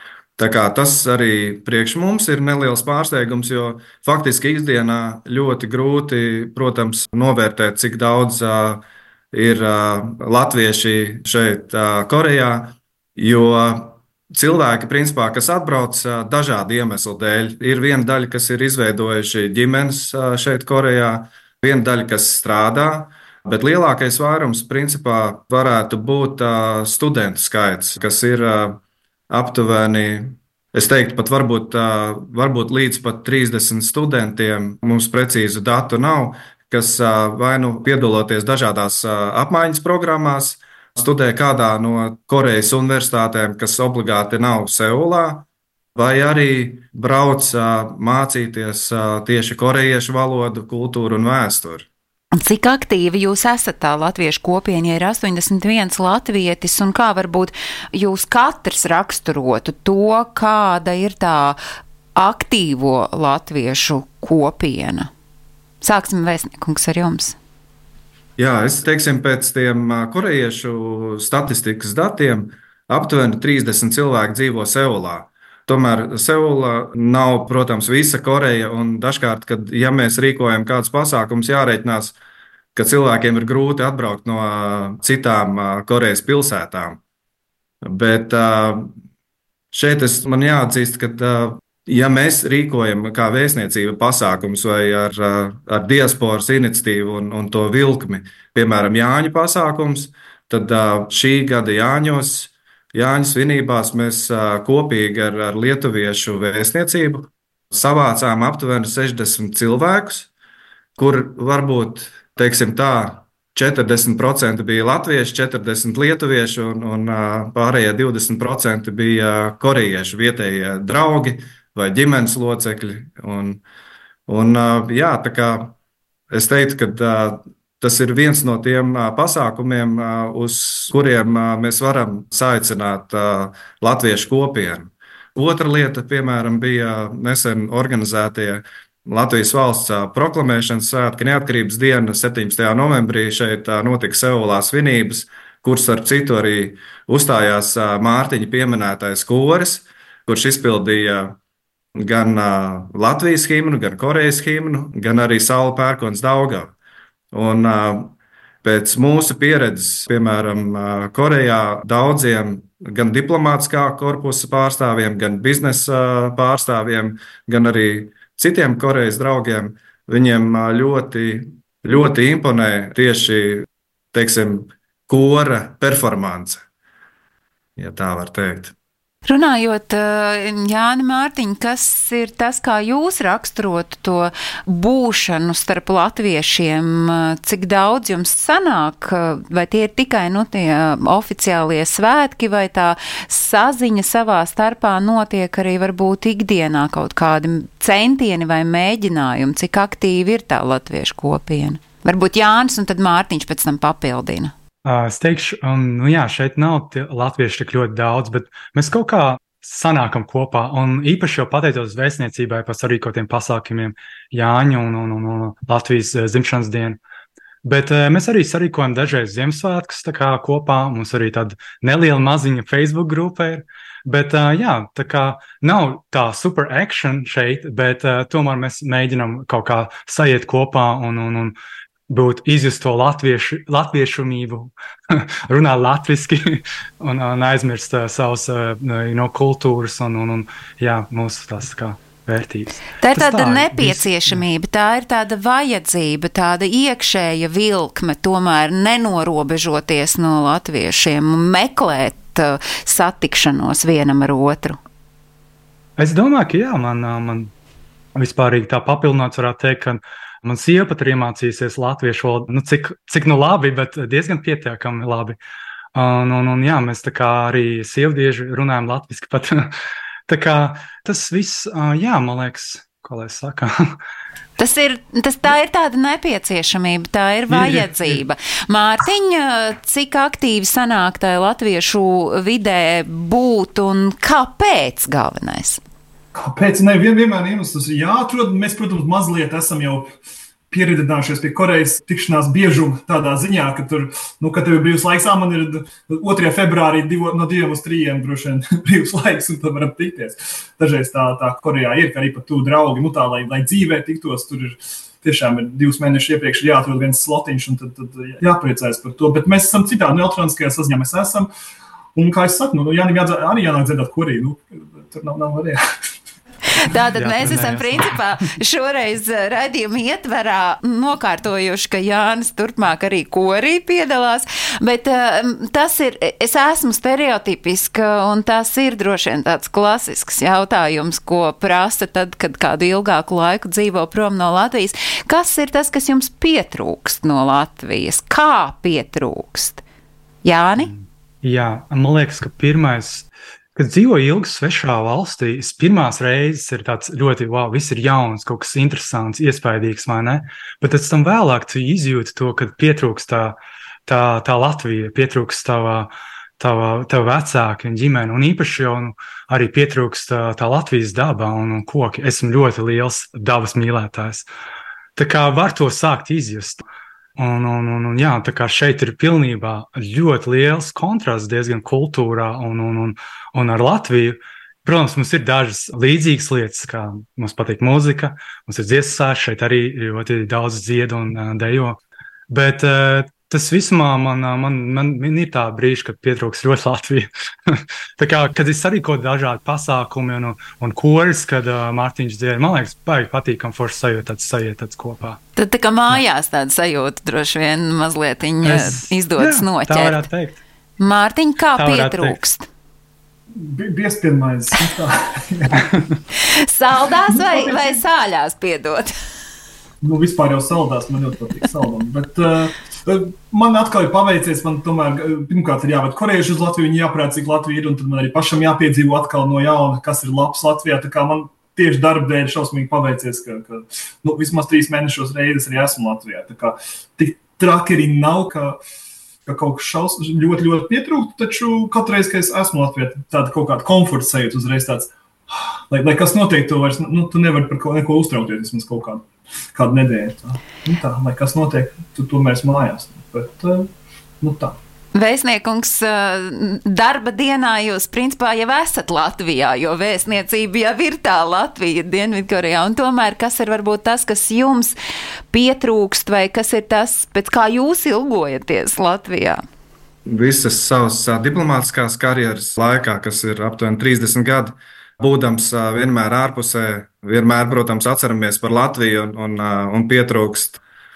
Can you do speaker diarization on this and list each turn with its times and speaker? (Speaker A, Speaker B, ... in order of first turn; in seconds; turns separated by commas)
Speaker A: 0.4-51.9, Speaker B: 52.4-61.6, Speaker B: 62.2-65.1, Speaker B: 65.8-67.4, Speaker A: 68.4-82.2, Speaker A: 82.8-87.0, Speaker A: 87.8-88.9, Speaker A: 89.7-110.3, Speaker A: 111.0-123.6, Speaker A: 124.3-125.8, Speaker A: 126.3-151.4, Speaker A: 152.0-156.7, Speaker A: 157.3-176.6, Speaker A: 177.8-178.7, Speaker B: 179.2-204.5, Speaker C: 204.8-217.0, Speaker C: 217.6-231.6, Speaker C: 232.1-244.4, Speaker B: 243.0-254.8, Speaker C: 256.0-257.5, Speaker C: 258.1-265.4, Speaker C: 265.9-269.7, Speaker C: 270.3-273.9, Speaker B: 274.6-285.8, Speaker C: 277.5-278.2, Speaker D: 286.3-290.1, Speaker D: 290.7-311.5, Speaker D: 312.1-315.8, Speaker B: 316.8-339.8, Speaker C: 317.2-318.2, Speaker B: 340.4-340.9, Speaker C: 340.8-364.5, Speaker C: 365.2-366.8, Speaker C: 367.4-382.0, Speaker C: 382.5-395.4, Speaker B: 395.6-400.2, Speaker C: 398.6-400.6, Speaker B: 401.0-402.7, Speaker C: 401.8-402.4, Speaker D: 403.5-405.9, Speaker B: 406.7-409.1, Speaker D: 407.3-408.0, Speaker D: 410.0-428.8, Speaker D: 429.5-443.9, Speaker D: 444.4-444.8, Speaker B: 445.1-455.0, Speaker B: 455.5-459.6, Speaker A: 460.3-470.8